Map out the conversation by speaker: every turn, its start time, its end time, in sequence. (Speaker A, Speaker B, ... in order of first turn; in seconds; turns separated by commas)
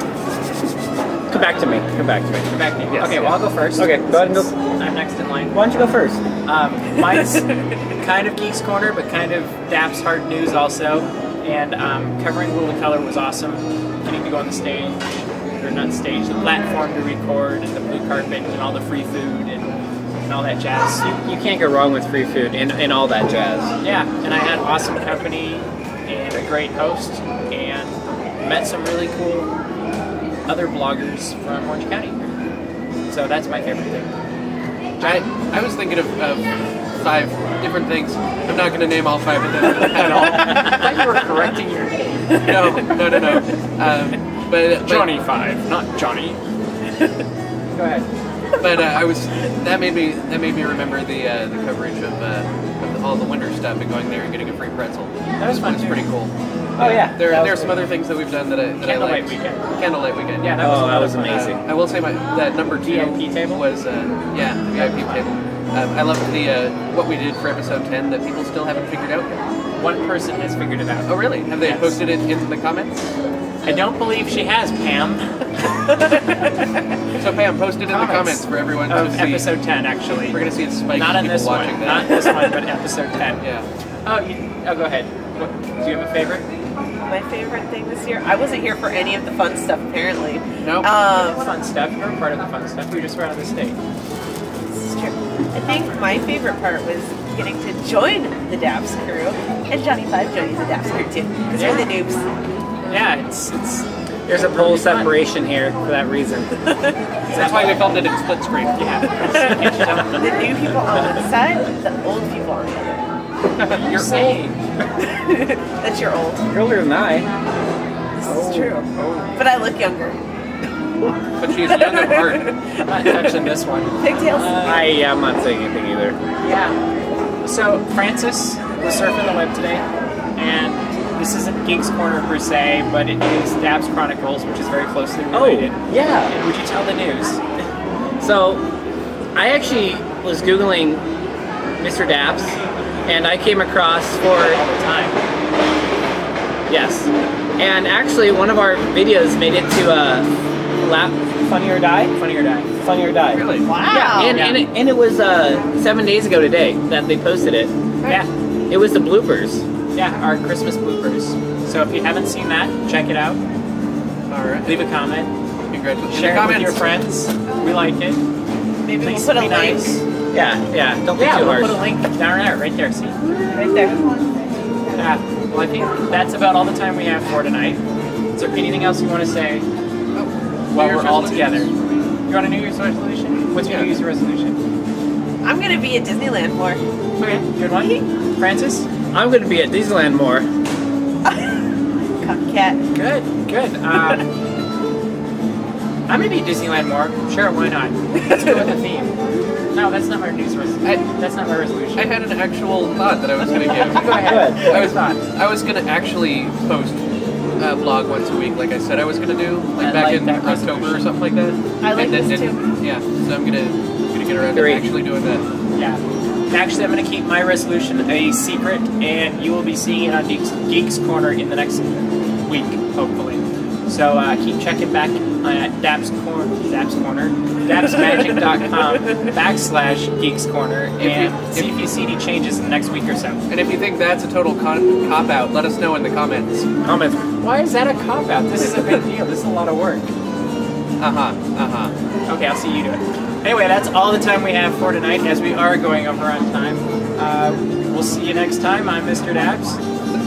Speaker A: 1.3-4.5, Speaker B: 2.5-5.7, Speaker A: 5.5-6.2, Speaker B: 6.4-21.1, Speaker A: 21.0-23.7, Speaker B: 23.8-29.5, Speaker B: 30.5-32.3, Speaker B: 33.1-34.1, Speaker C: 35.0-40.9, Speaker B: 40.2-42.4, Speaker D: 42.3-43.4, Speaker C: 42.4-45.2, Speaker B: 44.8-46.4, Speaker B: 47.7-48.1, Speaker C: 48.6-69.4, Speaker B: 55.4-56.1, Speaker A: 56.8-57.8, Speaker B: 58.8-59.6, Speaker B: 60.4-61.5, Speaker A: 60.6-61.6, Speaker B: 62.8-63.6, Speaker B: 64.8-65.3, Speaker B: 69.8-72.0, Speaker C: 71.1-73.1, Speaker B: 73.7-75.5, Speaker C: 77.2-79.6, Speaker B: 77.9-83.4, Speaker C: 80.2-82.5, Speaker C: 83.4-83.7, Speaker B: 84.0-86.5, Speaker D: 87.1-91.5, Speaker C: 90.6-90.9, Speaker B: 91.2-93.8, Speaker D: 94.7-102.3, Speaker B: 101.5-101.9, Speaker B: 102.9-105.2, Speaker A: 104.3-106.6, Speaker C: 107.3-108.8, Speaker B: 107.3-108.0, Speaker B: 108.8-110.4, Speaker D: 110.1-113.0, Speaker C: 113.6-114.3, Speaker B: 113.7-114.7, Speaker D: 115.0-116.5, Speaker A: 116.5-117.3, Speaker D: 118.2-120.2, Speaker B: 118.3-119.4, Speaker C: 121.4-122.5, Speaker D: 121.7-123.3, Speaker B: 122.8-124.9, Speaker D: 124.0-124.7, Speaker A: 124.6-126.2, Speaker B: 126.4-126.8, Speaker B: 127.4-129.9, Speaker B: 130.4-137.4, Speaker A: 135.3-136.4, Speaker A: 138.2-138.7, Speaker A: 139.3-141.1, Speaker A: 141.8-144.6, Speaker B: 144.2-145.2, Speaker A: 146.7-152.2, Speaker B: 152.2-152.7, Speaker A: 152.8-157.7, Speaker C: 153.3-153.7, Speaker D: 153.7-154.5, Speaker B: 154.2-154.7, Speaker A: 158.7-159.7, Speaker B: 159.9-163.4, Speaker C: 164.3-164.8, Speaker B: 164.6-165.3, Speaker C: 165.7-167.0, Speaker B: 166.1-168.2, Speaker D: 168.8-170.0, Speaker B: 169.0-170.1, Speaker A: 170.3-171.8, Speaker B: 171.2-173.2, Speaker D: 173.5-174.2, Speaker B: 175.0-177.8, Speaker B: 178.3-179.7, Speaker C: 180.1-181.8, Speaker B: 180.7-181.7, Speaker B: 182.3-184.6, Speaker C: 183.6-183.9, Speaker D: 185.4-186.8, Speaker B: 187.2-188.9, Speaker D: 187.8-188.1, Speaker A: 189.1-190.5, Speaker D: 191.2-192.8, Speaker B: 192.9-194.3, Speaker B: 196.1-199.1, Speaker B: 199.7-202.2, Speaker C: 202.0-207.0, Speaker B: 203.8-205.2, Speaker A: 204.2-204.8, Speaker C: 207.6-215.4, Speaker B: 209.8-211.1, Speaker D: 211.8-212.6, Speaker A: 214.5-214.9, Speaker B: 215.7-221.8, Speaker B: 222.4-233.4, Speaker C: 231.0-231.8, Speaker C: 233.5-236.7, Speaker A: 236.8-237.2, Speaker B: 237.4-240.1, Speaker C: 241.0-241.9, Speaker B: 242.3-249.8